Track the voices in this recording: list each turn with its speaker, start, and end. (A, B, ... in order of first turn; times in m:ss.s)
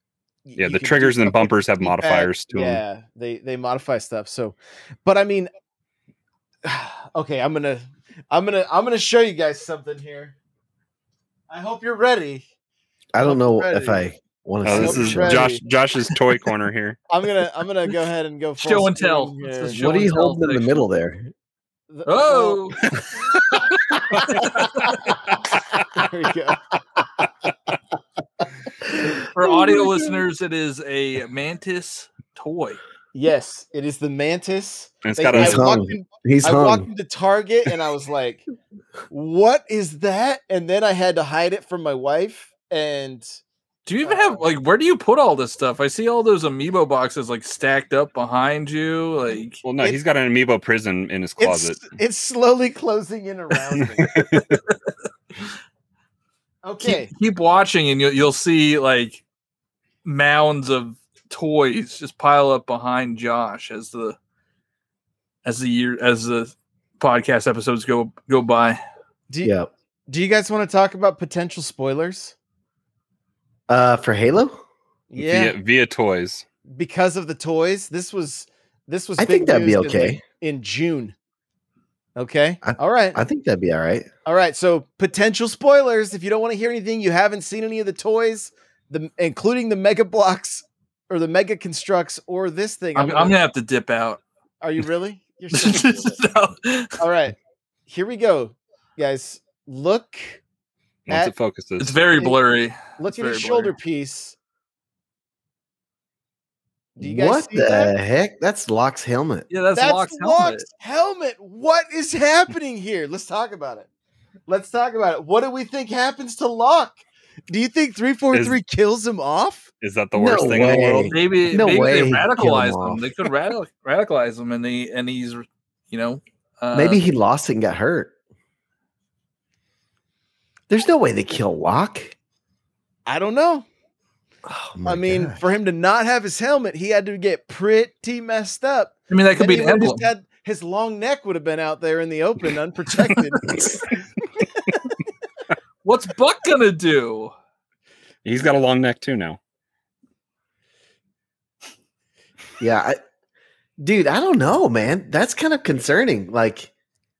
0:00.5-0:05.5 A
0:00.6-0:02.8 B
0:06.6-0:10.4 A
0:11.5-0:12.4 A
0:13.1-0:15.4 C
0:13.2-0:14.0 A
0:14.6-0:17.0 B
0:14.7-0:15.6 A
0:17.1-0:19.8 A
0:18.6-0:20.9 D
0:19.7-0:21.3 C
0:21.9-0:22.7 A
0:22.1-0:22.9 D
0:24.4-0:24.7 D
0:25.9-0:26.8 A
0:29.0-0:30.0 C
0:29.2-0:32.8 D
0:33.2-0:38.4 A
0:35.0-0:35.7 B
0:35.3-0:36.9 C
0:39.1-0:43.4 A
0:43.9-0:49.6 D
0:44.0-0:44.4 A
0:49.6-0:51.8 B
0:51.4-0:54.2 A
0:54.0-0:54.6 B
0:56.6-0:57.1 A
0:56.8-0:59.2 D
1:00.0-1:04.2 D
1:05.4-1:08.8 D
1:09.4-1:09.7 C
1:10.1-1:12.4 A
1:13.7-1:14.6 C
1:15.1-1:15.6 A
1:15.2-1:16.4 B
1:16.7-1:21.1 A
1:19.2-1:20.2 C
1:22.2-1:23.2 A
1:22.6-1:24.1 C
1:24.3-1:33.4 A
1:33.0-1:34.2 D
1:34.6-1:36.2 A
1:35.5-1:37.0 D
1:37.0-1:37.4 A
1:37.9-1:40.4 A
1:41.1-1:41.9 B
1:41.8-1:43.7 D
1:43.0-1:44.4 A
1:47.0-1:49.5 C
1:47.0-1:47.9 A
1:49.5-1:50.7 D
1:49.8-1:53.9 A
1:54.5-1:57.0 A
1:57.5-1:59.7 A
1:58.3-1:58.6 B
1:59.8-2:01.1 B
2:00.2-2:03.1 C
2:01.1-2:07.0 D
2:06.7-2:08.2 C
2:10.7-2:12.2 C
2:13.1-2:13.7 A
2:14.5-2:15.4 C
2:14.8-2:23.4 A
2:19.1-2:20.1 D
2:23.5-2:23.8 C
2:25.8-2:27.3 D
2:28.2-2:29.4 B
2:32.6-2:33.0 C
2:33.8-2:36.7 C